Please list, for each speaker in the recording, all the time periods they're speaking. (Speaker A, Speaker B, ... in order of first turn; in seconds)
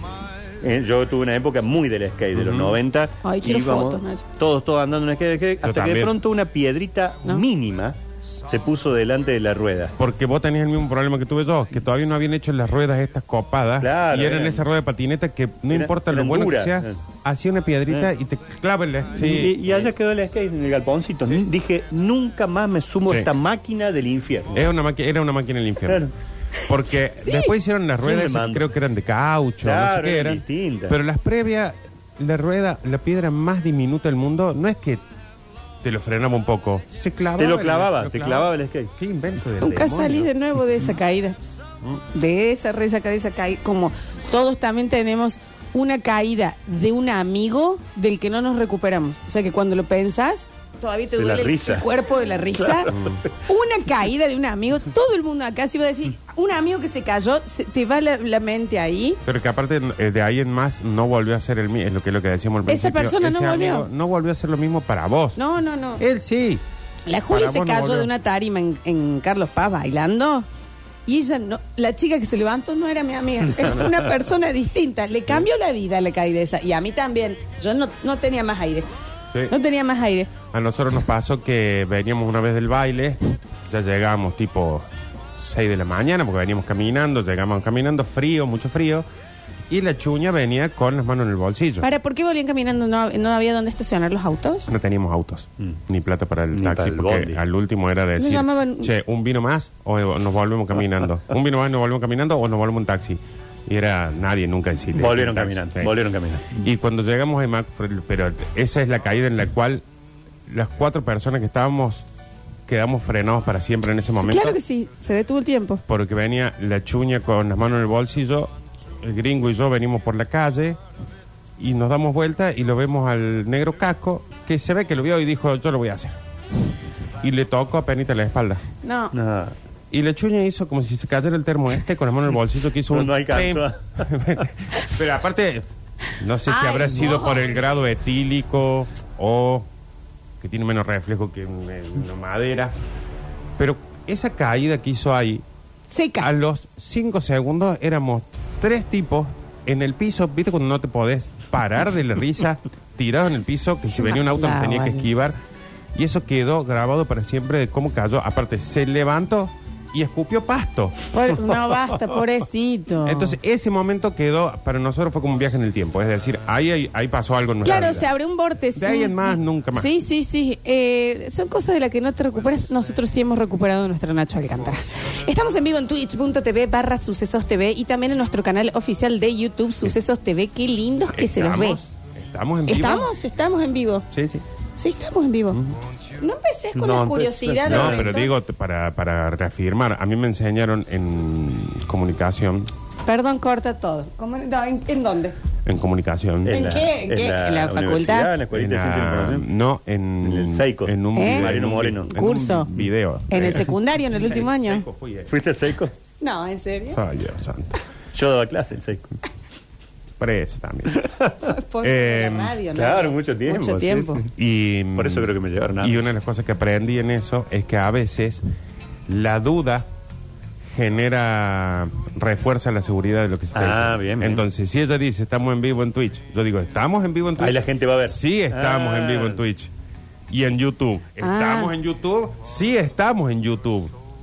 Speaker A: 0.6-9.9, 13.8-14.7, 15.7-17.0, 19.1-24.7, 25.9-26.1, 28.0-28.7, 29.6-31.0, 37.4-38.9, 51.2-51.9, 52.5-53.3, 96.5-97.4, 105.0-106.6, 129.1-129.6, 132.9-134.1, 186.8-188.1, 196.4-199.5, 200.2-202.1, 205.3-205.9, 208.1-209.1, 210.9-211.5, 212.7-214.3, 214.9-216.1, 223.5-224.4, 227.4-229.4
Speaker B: 2.3-2.8, 5.6-6.1, 10.0-19.9, 24.5-26.1, 26.7-35.0, 35.8-40.3, 52.9-53.2, 59.2-65.4, 66.0-66.6, 67.3-68.1, 80.5-84.8, 85.4-89.0, 89.7-91.9, 94.7-105.9, 106.5-109.8, 110.5-112.1, 112.7-114.6, 115.9-120.8, 121.6-126.2, 127.2-128.6, 129.9-135.7, 136.2-139.7, 140.4-142.7, 143.6-145.4, 146.2-155.4, 155.9-161.1, 163.0-168.1, 168.8-169.9, 181.1-183.1, 184.1-184.4, 185.5-185.8, 187.7-192.7, 195.7-196.9, 198.5-205.3, 206.9-207.8, 210.2-211.0, 211.8-212.6, 214.3-218.4, 219.1-219.9, 220.7-229.7, 230.3-233.9
Speaker C: 3.2-4.2, 27.2-27.5, 39.6-41.4, 42.1-59.2, 62.7-63.9, 65.4-66.0, 67.1-70.5, 71.1-78.9, 79.5-80.3, 91.8-94.7, 98.2-98.9, 114.2-115.8, 128.8-129.1, 136.5-137.5, 145.9-146.3, 154.0-155.1, 161.1-163.4, 167.6-181.8, 182.7-184.1, 184.8-185.6, 186.2-188.3, 193.1-195.4, 196.5-198.3, 201.1-201.5, 202.1-202.7, 203.3-204.9, 206.2-207.0, 211.4-214.2, 231.2-231.8